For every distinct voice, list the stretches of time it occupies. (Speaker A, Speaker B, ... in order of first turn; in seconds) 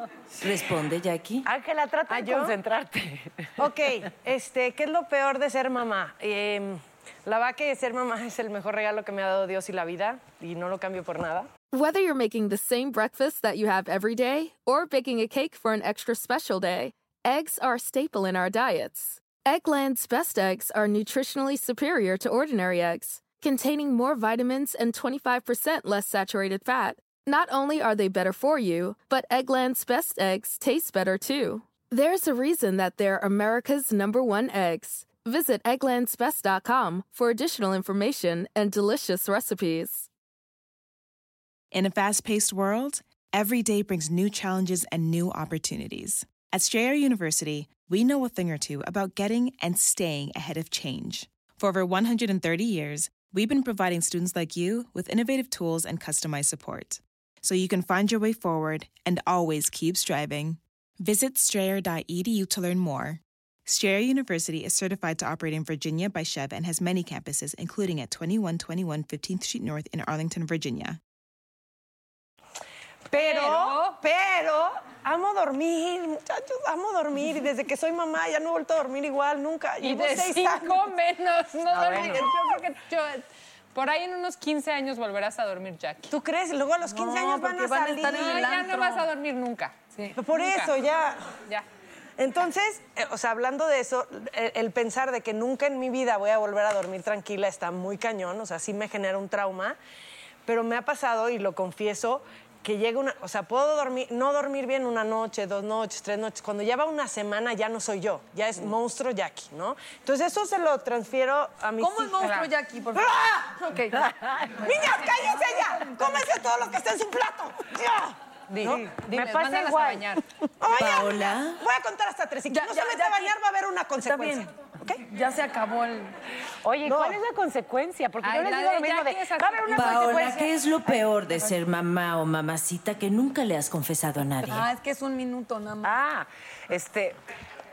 Speaker A: 0.4-1.5, 120.6-121.6, 129.7-134.7
Speaker B: 1.4-3.5, 81.7-82.2, 118.5-120.1, 126.6-130.4, 135.8-137.2
Speaker C: 2.1-2.5, 3.6-11.5, 73.1-80.9, 81.7-82.4, 86.1-88.6, 90.1-91.2, 92.2-99.8, 100.5-112.3, 113.0-113.6, 114.5-118.9, 120.6-125.0, 126.8-127.2
Speaker D: 11.7-40.1
Speaker E: 41.7-71.0
Speaker F: 73.1-74.0, 79.8-86.1, 88.1-89.8, 90.3-90.7, 112.2-112.5, 118.6-120.2, 128.2-130.4
Speaker G: 86.8-89.1, 111.8-114.7, 115.6-116.0, 122.5-123.4, 124.0-126.2, 130.9-131.5, 134.5-136.0